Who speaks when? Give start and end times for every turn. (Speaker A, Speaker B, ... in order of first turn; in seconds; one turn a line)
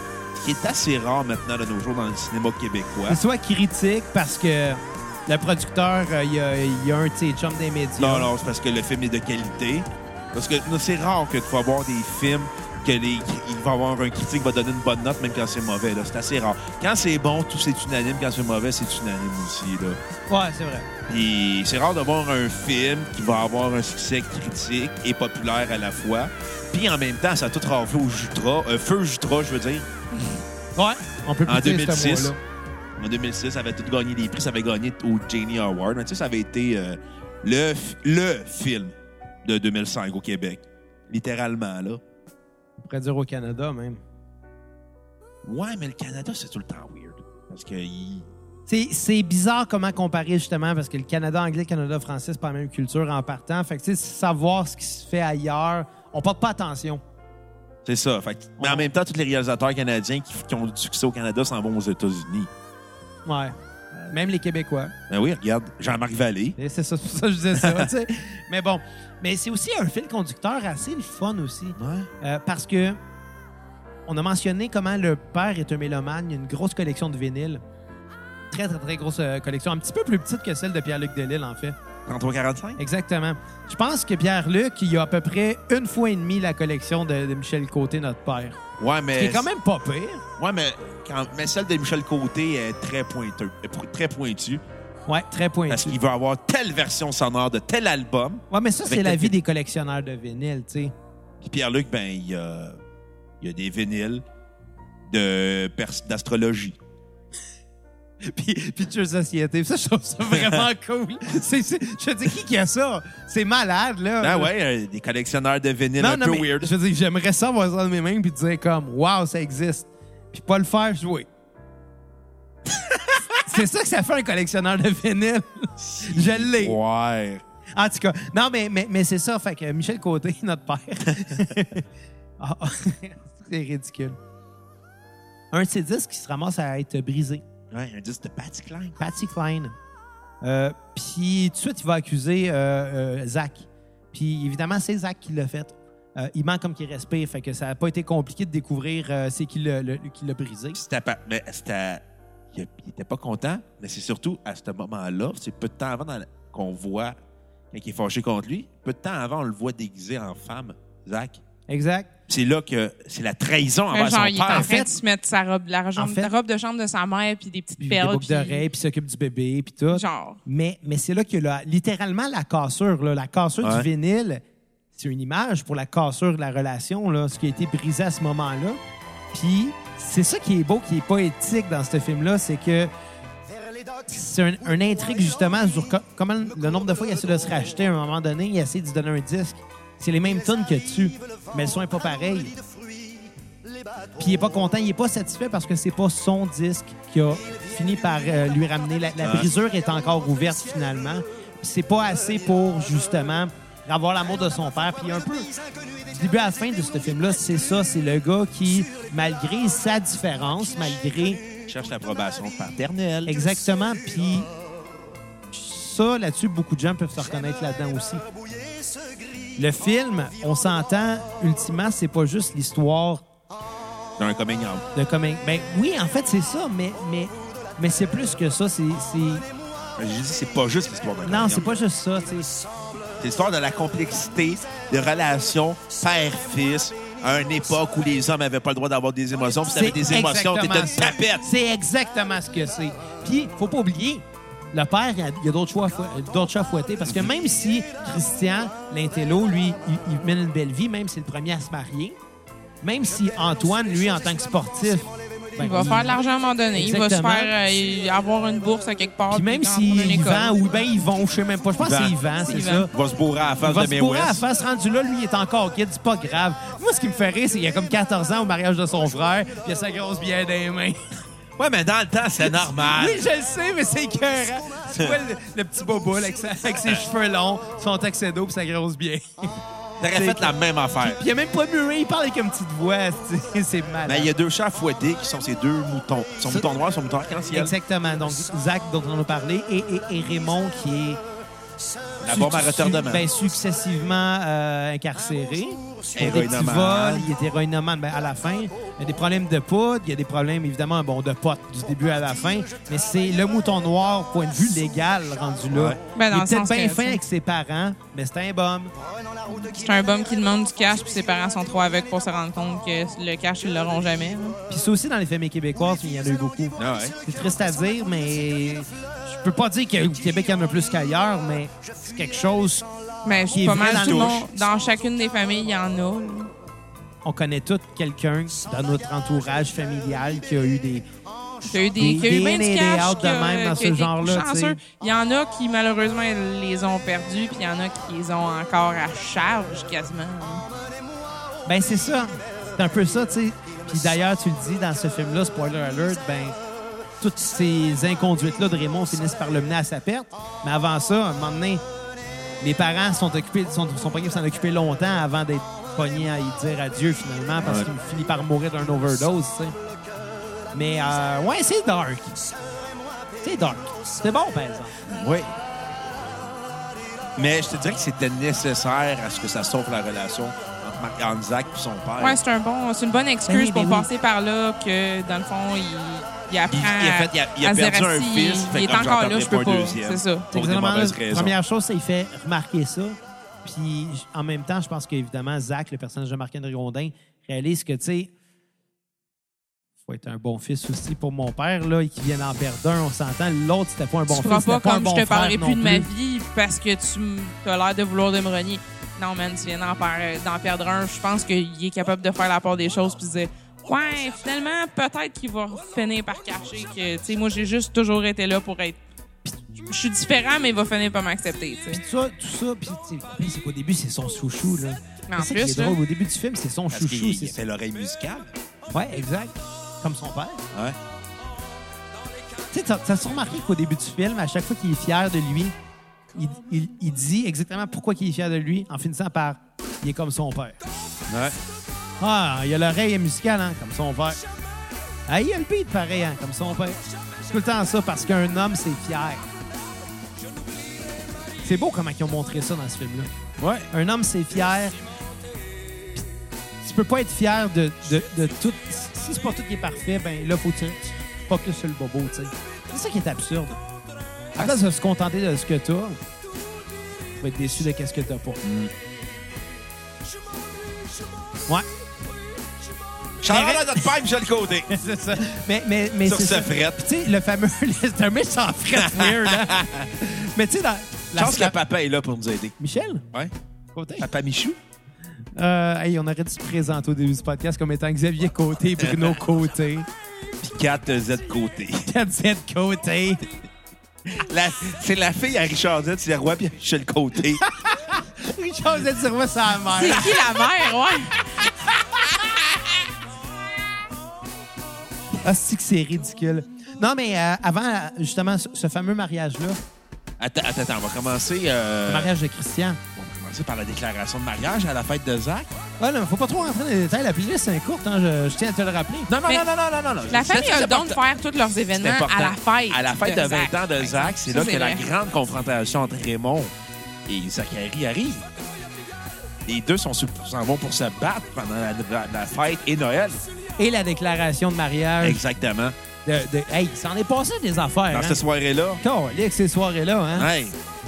Speaker A: 0.3-3.2
Speaker B: 3.1-8.3
Speaker A: 8.0-20.0
Speaker B: 20.3-20.9
Speaker A: 21.1-29.9
Speaker B: 30.8-32.4
Speaker A: 31.5-32.3
Speaker A: 33.0-42.0
Speaker B: 42.8-44.0
Speaker A: 45.4-48.3
Speaker B: 48.7-57.0
Speaker A: 57.9-62.5
Speaker B: 58.6-58.9
Speaker B: 63.2-64.9
Speaker A: 65.1-66.5
Speaker B: 66.6-73.0
Speaker A: 67.5-67.9
Speaker A: 71.8-72.1
Speaker B: 74.1-77.6
Speaker B: 78.5-81.8
Speaker A: 82.1-82.8
Speaker B: 82.8-88.6
Speaker A: 88.8-89.5
Speaker B: 89.2-90.2
Speaker A: 90.4-94.6
Speaker B: 95.1-96.0
Speaker A: 95.7-99.3
Speaker B: 98.5-100.9
Speaker A: 101.4-102.8
Speaker A: 103.4-104.2
Speaker A: 105.1-106.8
Speaker B: 108.2-114.5
Speaker A: 110.3-110.6
Speaker A: 114.2-116.7
Speaker B: 116.0-121.3
Speaker B: 123.4-126.8
Speaker A: 125.8-127.4
Speaker B: 127.8-131.8
Speaker B: 132.4-134.2
Speaker B: 135.5-137.4
Speaker A: 137.7-138.9
Speaker B: 139.0-139.7
Speaker B: 140.4-150.8
Speaker A: 150.7-152.0
Speaker A: 152.5-157.1
Speaker A: 157.7-161.4
Speaker B: 161.7-162.1
Speaker A: 162.3-164.7
Speaker C: 163.9-168.6
Speaker B: 164.5-164.9
Speaker B: 165.9-166.3
Speaker B: 167.8-174.4
Speaker C: 169.9-170.4
Speaker A: 173.6-173.9
Speaker B: 174.9-178.8
Speaker B: 179.3-182.9
Speaker B: 184.1-192.6
Speaker B: 194.2-205.5
Speaker A: 199.2-199.5
Speaker B: 206.1-211.4
Speaker A: 211.7-213.3
Speaker B: 213.2-214.5
Speaker B: 215.5-218.2
Speaker B: 219.6-223.2
Speaker A: 224.2-224.8
Speaker B: 224.9-229.4
Speaker A: 230.0-231.7
Speaker B: 231.2-232.5
Speaker A: 233.2-241.4
Speaker B: 239.7-252.2
Speaker B: 252.8-256.2
Speaker C: 255.6-260.6
Speaker B: 256.7-257.5
Speaker B: 259.3-262.9
Speaker A: 261.8-262.1
Speaker C: 262.4-262.9
Speaker A: 262.9-264.4
Speaker B: 263.6-271.0
Speaker A: 271.6-273.2
Speaker B: 272.4-279.6
Speaker A: 280.0-281.2
Speaker B: 280.1-284.3
Speaker A: 284.1-287.7
Speaker B: 287.5-291.2
Speaker A: 292.2-293.3
Speaker B: 292.3-308.9
Speaker A: 296.1-297.3
Speaker A: 305.7-306.0
Speaker C: 306.1-307.2
Speaker C: 309.7-314.6
Speaker B: 314.7-322.9
Speaker A: 316.8-317.1
Speaker C: 323.2-326.5
Speaker B: 323.5-324.4
Speaker A: 323.7-324.4
Speaker B: 327.2-331.1
Speaker C: 331.6-340.6
Speaker B: 331.9-334.8
Speaker B: 341.6-346.6
Speaker B: 347.2-351.8
Speaker B: 352.6-359.8
Speaker A: 357.6-357.9
Speaker B: 360.7-362.4
Speaker B: 363.4-364.9
Speaker A: 365.1-365.5
Speaker A: 367.4-372.4
Speaker C: 372.2-380.5
Speaker B: 373.5-374.1
Speaker A: 376.7-381.6
Speaker B: 380.5-388.3
Speaker B: 390.0-396.1
Speaker C: 394.3-409.0
Speaker C: 409.9-412.0
Speaker B: 411.9-417.6
Speaker C: 415.3-416.0
Speaker A: 416.9-418.5
Speaker B: 418.9-420.6
Speaker B: 422.7-425.7
Speaker B: 426.3-430.8
Speaker A: 431.3-431.6
Speaker B: 432.2-434.4
Speaker B: 435.3-439.4
Speaker B: 441.6-443.3
Speaker A: 443.6-443.9
Speaker B: 443.9-445.0
Speaker B: 446.8-453.8
Speaker B: 454.5-456.2
Speaker B: 457.4-458.6
Speaker A: 458.6-458.9
Speaker A: 463.4-464.9
Speaker B: 463.4-464.1
Speaker B: 464.9-471.8
Speaker A: 466.2-467.0
Speaker A: 469.0-470.1
Speaker A: 471.4-472.8
Speaker B: 472.8-473.2
Speaker B: 473.9-474.3
Speaker A: 474.2-474.8
Speaker B: 475.6-480.1
Speaker A: 479.0-479.4
Speaker A: 480.6-482.1
Speaker B: 482.1-483.4
Speaker A: 484.3-487.7
Speaker B: 487.6-490.4
Speaker C: 489.9-491.3
Speaker A: 490.1-490.4
Speaker B: 495.4-499.8
Speaker A: 500.4-502.3
Speaker B: 502.1-503.0
Speaker A: 503.1-505.7
Speaker B: 506.0-509.3
Speaker A: 509.3-511.2
Speaker C: 510.3-515.0
Speaker A: 511.9-516.7
Speaker A: 517.3-518.4
Speaker A: 519.7-523.4
Speaker B: 523.8-525.4
Speaker A: 525.2-525.9
Speaker B: 526.2-528.4
Speaker A: 528.1-529.0
Speaker B: 529.0-530.5
Speaker A: 530.4-530.8